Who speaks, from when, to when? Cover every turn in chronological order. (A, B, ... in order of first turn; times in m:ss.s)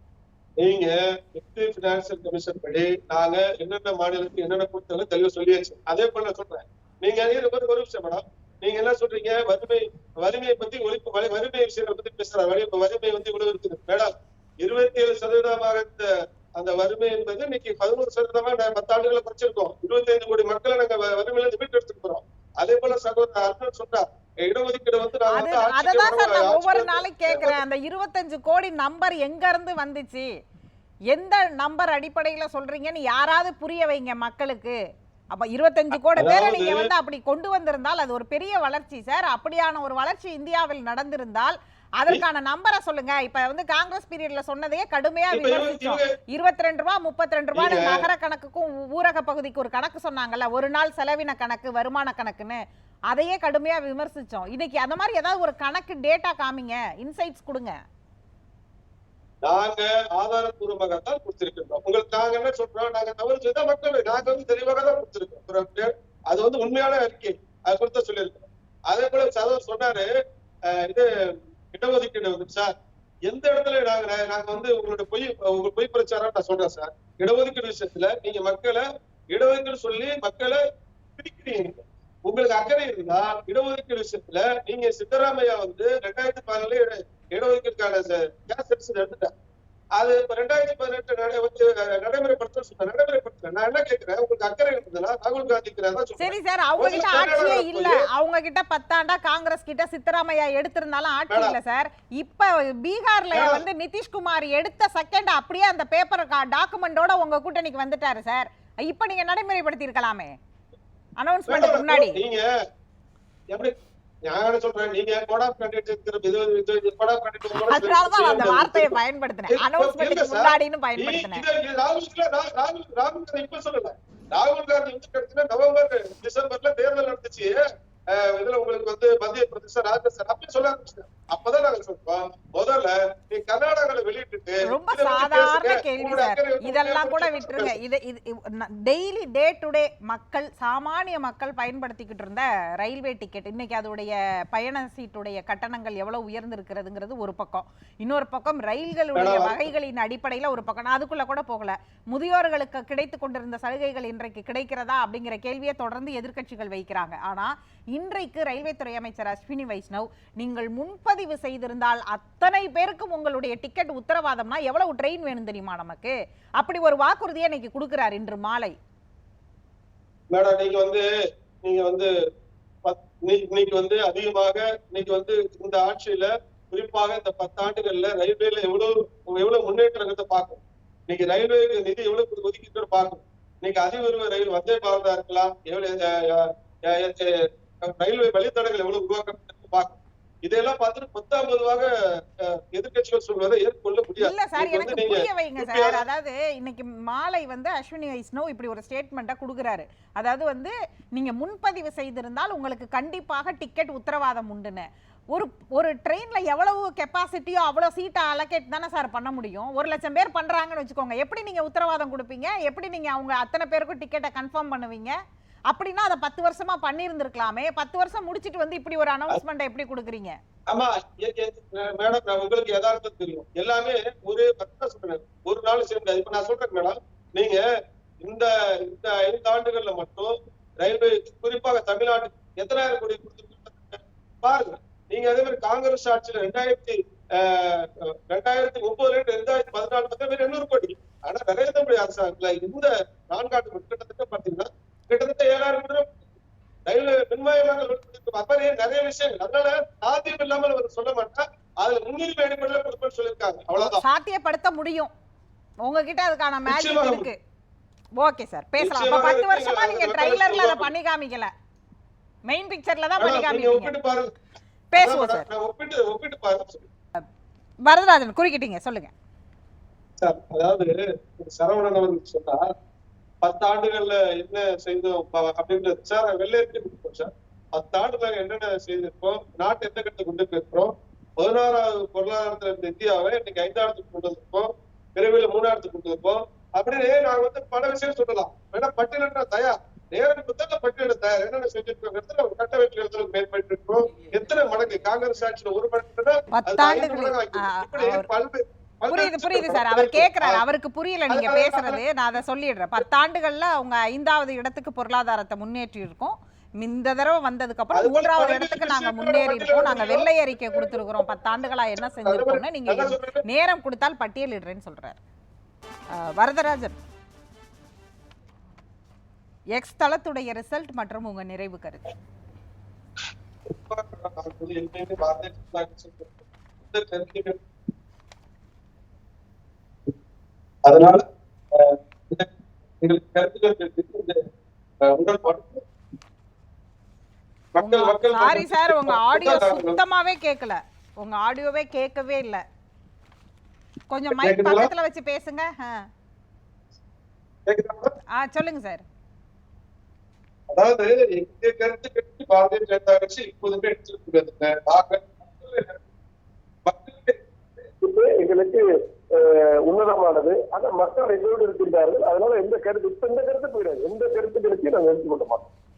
0:00.6-0:27.6 A
0:25.3-0:30.3 B
0:31.1-0:34.8 B
0:35.3-0:57.8 B
0:35.9-0:36.9 A
0:45.3-0:46.1 A
0:47.6-0:48.1 A
0:59.4-1:10.1 A
1:10.7-1:11.1 A
1:11.7-1:12.7 A
1:13.3-1:20.6 A
1:21.2-1:29.3 A
1:30.0-1:38.0 A
1:36.2-1:50.3 B
1:41.3-1:41.6 A
1:43.3-1:43.6 A
1:51.2-1:52.2 B
1:51.5-1:52.5 A
1:54.3-1:59.0 A
1:57.6-2:01.4 B
1:59.5-2:17.8 A
2:14.7-2:48.8 B
2:29.2-2:29.7 A
2:50.3-2:51.1 A
2:51.6-2:52.1 A
2:52.8-3:11.9 A
3:12.4-3:16.0 A
3:14.2-3:35.2 B
3:35.7-3:40.4 B
3:40.7-3:47.6 A
3:48.2-4:06.2 A
4:06.9-4:14.0 A
4:13.8-4:15.1 B
4:15.8-4:17.4 B
4:16.7-4:17.3 A
4:18.2-4:21.5 B
4:18.8-4:20.9 A
4:22.5-4:23.9 B
4:23.2-4:24.3 A
4:24.9-4:25.5 B
4:25.0-4:26.9 A
4:27.8-4:29.1 B
4:30.2-4:32.7 A
4:33.4-5:00.6 A
4:56.6-4:58.3 B
4:59.1-5:15.2 B
5:01.3-5:02.0 A
5:07.9-5:13.4 A
5:16.1-5:17.0 B
5:19.7-5:22.1 B
5:23.7-5:27.6 A
5:30.8-5:31.2 A
5:31.7-5:34.4 A
5:35.0-5:35.8 A
5:37.8-5:40.0 A
5:37.8-5:42.6 B
5:44.1-5:46.1 B
5:44.3-5:44.9 A
5:47.7-5:48.1 A
5:48.3-5:49.0 B
5:50.7-5:56.0 A
5:56.8-5:57.4 A
5:58.0-6:05.7 C